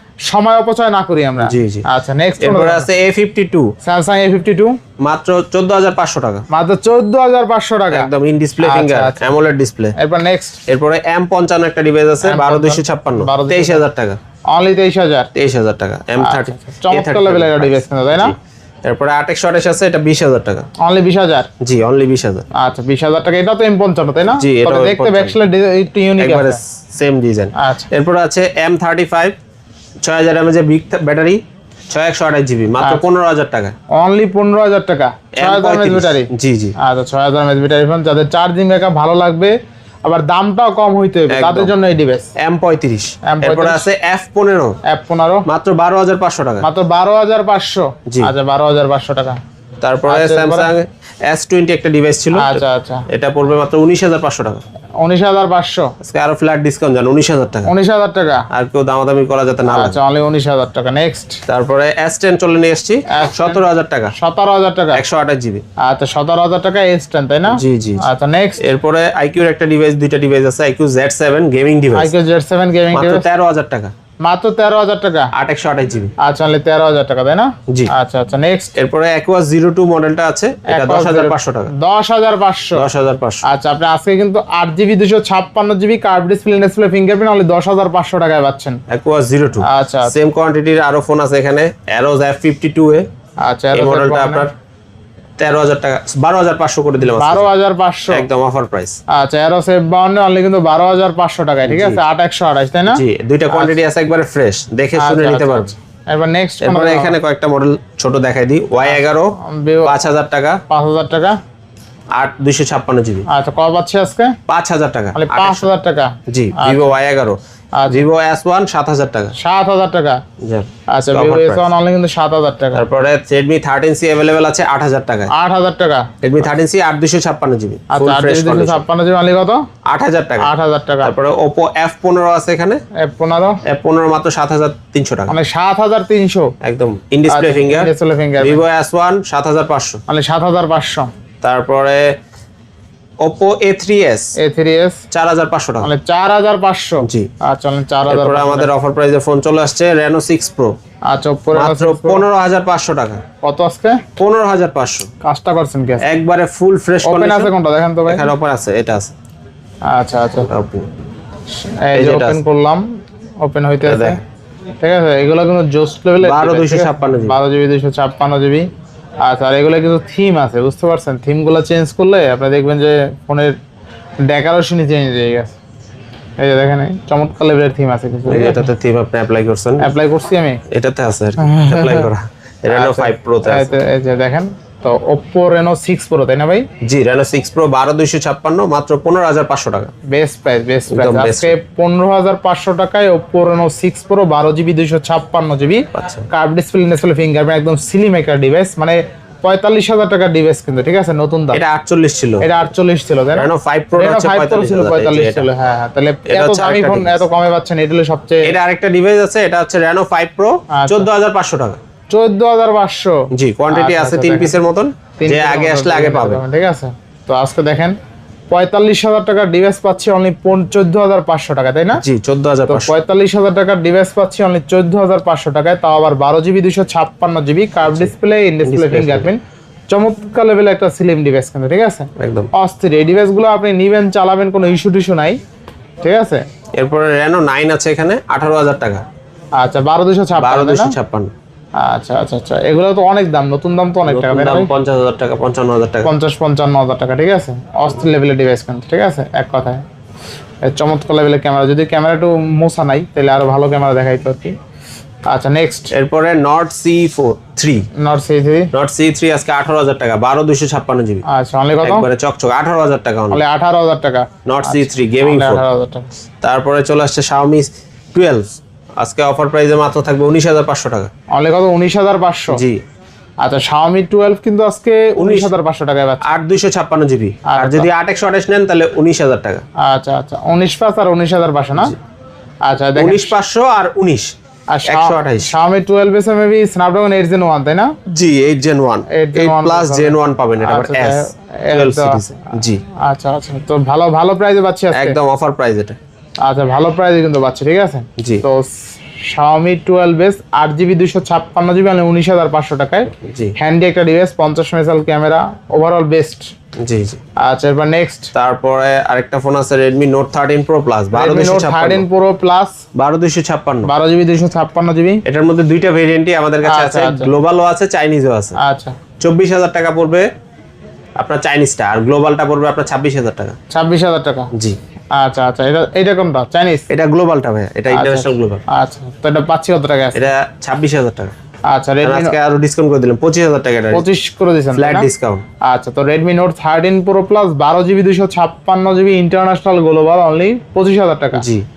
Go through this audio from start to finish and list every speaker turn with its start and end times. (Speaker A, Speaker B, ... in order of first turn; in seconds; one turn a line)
Speaker A: 0.3-2.9
Speaker B: 1.4-1.8
Speaker B: 2.4-3.7
Speaker A: 3.8-4.8
Speaker B: 5.0-6.5
Speaker A: 6.5-9.3
Speaker B: 7.9-9.9
Speaker A: 10.0-10.6
Speaker B: 10.7-14.2
Speaker A: 12.2-13.8
Speaker A: 14.5-15.3
Speaker B: 15.3-20.7
Speaker A: 16.2-18.4
Speaker A: 20.8-21.5
Speaker B: 21.6-22.5
Speaker A: 22.6-26.6
Speaker B: 24.4-25.4
Speaker B: 26.2-29.4
Speaker A: 27.6-27.9
Speaker B: 30.0-33.7
Speaker A: 34.0-39.5
Speaker B: 35.4-36.8
Speaker A: 40.1-42.3
Speaker B: 41.3-41.7
Speaker B: 42.4-44.8
Speaker A: 43.3-43.9
Speaker A: 44.9-45.5
Speaker B: 45.5-46.6
Speaker A: 46.6-49.4
Speaker B: 49.8-54.6
Speaker A: 50.1-50.7
Speaker A: 52.3-53.0
Speaker A: 55.0-56.0
Speaker B: 56.0-57.7
Speaker A: 57.7-58.5
Speaker B: 58.5-60.0
Speaker A: 59.7-61.4
Speaker B: 61.5-64.1
Speaker A: 63.1-63.6
Speaker A: 64.2-65.0
Speaker B: 65.0-65.6
Speaker A: 65.8-68.6
Speaker B: 67.5-68.0
Speaker B: 68.6-72.1
Speaker A: 72.0-73.2
Speaker B: 72.9-73.9
Speaker A: 74.2-75.3
Speaker B: 75.3-76.1
Speaker A: 76.2-78.8
Speaker B: 78.8-81.7
Speaker A: 80.7-82.8
Speaker B: 82.8-83.4
Speaker A: 83.4-88.8
Speaker B: 88.9-93.0
Speaker A: 89.6-90.1
Speaker A: 93.4-94.5
Speaker B: 93.7-94.5
Speaker B: 95.4-97.5
Speaker A: 97.0-98.3
Speaker B: 98.1-99.0
Speaker A: 99.1-103.8
Speaker B: 101.7-102.0
Speaker B: 102.9-105.7
Speaker A: 105.0-107.2
Speaker B: 106.6-110.6
Speaker A: 108.8-110.0
Speaker A: 110.7-111.4
Speaker B: 112.2-113.3
Speaker A: 113.3-114.4
Speaker B: 114.5-115.7
Speaker A: 115.2-117.0
Speaker B: 116.3-119.3
Speaker A: 117.8-118.0
Speaker A: 119.4-120.2
Speaker B: 120.4-121.7
Speaker A: 120.9-122.8
Speaker B: 122.7-125.3
Speaker A: 125.3-126.1
Speaker B: 126.2-128.8
Speaker A: 127.9-129.7
Speaker B: 129.8-130.5
Speaker A: 130.4-131.2
Speaker B: 131.0-132.8
Speaker A: 133.0-133.6
Speaker B: 133.7-135.3
Speaker A: 135.3-136.5
Speaker B: 136.6-140.0
Speaker A: 137.3-138.6
Speaker A: 140.1-141.1
Speaker B: 141.4-142.1
Speaker B: 143.2-144.3
Speaker A: 144.4-145.0
Speaker B: 145.1-145.9
Speaker A: 145.8-148.7
Speaker B: 147.0-147.3
Speaker B: 148.1-150.8
Speaker A: 151.1-152.2
Speaker B: 151.5-153.2
Speaker A: 153.4-154.0
Speaker B: 154.2-155.1
Speaker A: 155.2-156.1
Speaker B: 156.0-157.5
Speaker A: 157.0-158.3
Speaker B: 158.1-159.1
Speaker A: 159.9-160.5
Speaker B: 160.4-160.9
Speaker A: 161.8-162.8
Speaker B: 161.9-162.4
Speaker A: 163.4-164.2
Speaker B: 163.8-164.2
Speaker A: 164.8-168.7
Speaker B: 166.2-167.4
Speaker A: 169.2-173.6
Speaker A: 174.3-175.6
Speaker A: 176.4-178.7
Speaker B: 178.3-179.9
Speaker A: 179.8-180.6
Speaker B: 180.7-183.7
Speaker A: 181.4-182.1
Speaker A: 182.7-186.7
Speaker B: 186.8-189.9
Speaker A: 190.1-201.6
Speaker B: 190.9-191.6
Speaker B: 195.9-196.3
Speaker B: 201.5-202.5
Speaker A: 202.4-208.6
Speaker B: 203.3-205.5
Speaker B: 206.3-207.2
Speaker B: 208.4-211.8
Speaker A: 210.7-211.1
Speaker A: 212.1-214.6
Speaker B: 213.3-216.4
Speaker A: 215.2-218.0
Speaker A: 218.5-222.0
Speaker B: 222.0-222.9
Speaker A: 222.7-235.4
Speaker B: 227.9-228.1
Speaker B: 228.7-229.3
Speaker B: 232.2-232.5
Speaker A: 236.0-236.4
Speaker B: 236.8-239.0
Speaker A: 239.6-241.0
Speaker B: 240.4-241.3
Speaker A: 241.8-244.7
Speaker B: 244.1-246.1
Speaker A: 246.0-249.8
Speaker A: 250.6-254.6
Speaker A: 255.3-255.9
Speaker B: 255.9-257.9
Speaker A: 258.0-258.7
Speaker B: 258.7-261.2
Speaker A: 261.3-262.1
Speaker B: 261.8-263.4
Speaker A: 263.3-266.1
Speaker B: 264.5-265.6
Speaker B: 266.4-271.1
Speaker A: 271.3-272.6
Speaker B: 272.5-272.8
Speaker A: 273.4-276.2
Speaker B: 275.2-275.5
Speaker B: 276.2-279.6
Speaker A: 277.5-277.9
Speaker A: 279.8-282.0
Speaker A: 282.7-283.3
Speaker B: 283.0-284.3
Speaker A: 284.7-287.9
Speaker B: 284.9-285.5
Speaker B: 288.1-292.8
Speaker A: 289.1-295.2
Speaker B: 294.9-296.0
Speaker A: 296.4-306.5
Speaker B: 298.2-298.4
Speaker B: 303.2-303.5
Speaker B: 306.8-307.2
Speaker A: 307.4-308.3
Speaker B: 308.3-312.1
Speaker A: 311.1-312.8
Speaker B: 312.9-313.9
Speaker A: 313.9-315.2
Speaker B: 315.2-318.6
Speaker A: 316.6-317.3
Speaker A: 318.6-319.0
Speaker B: 319.2-320.3
Speaker B: 321.2-323.6
Speaker A: 323.7-324.5
Speaker A: 325.1-326.9
Speaker B: 326.9-328.6
Speaker A: 327.9-330.3
Speaker B: 330.1-331.3
Speaker A: 331.7-332.4
Speaker B: 332.0-334.1
Speaker A: 333.9-335.1
Speaker B: 334.7-335.4
Speaker A: 335.6-341.4
Speaker B: 341.4-341.6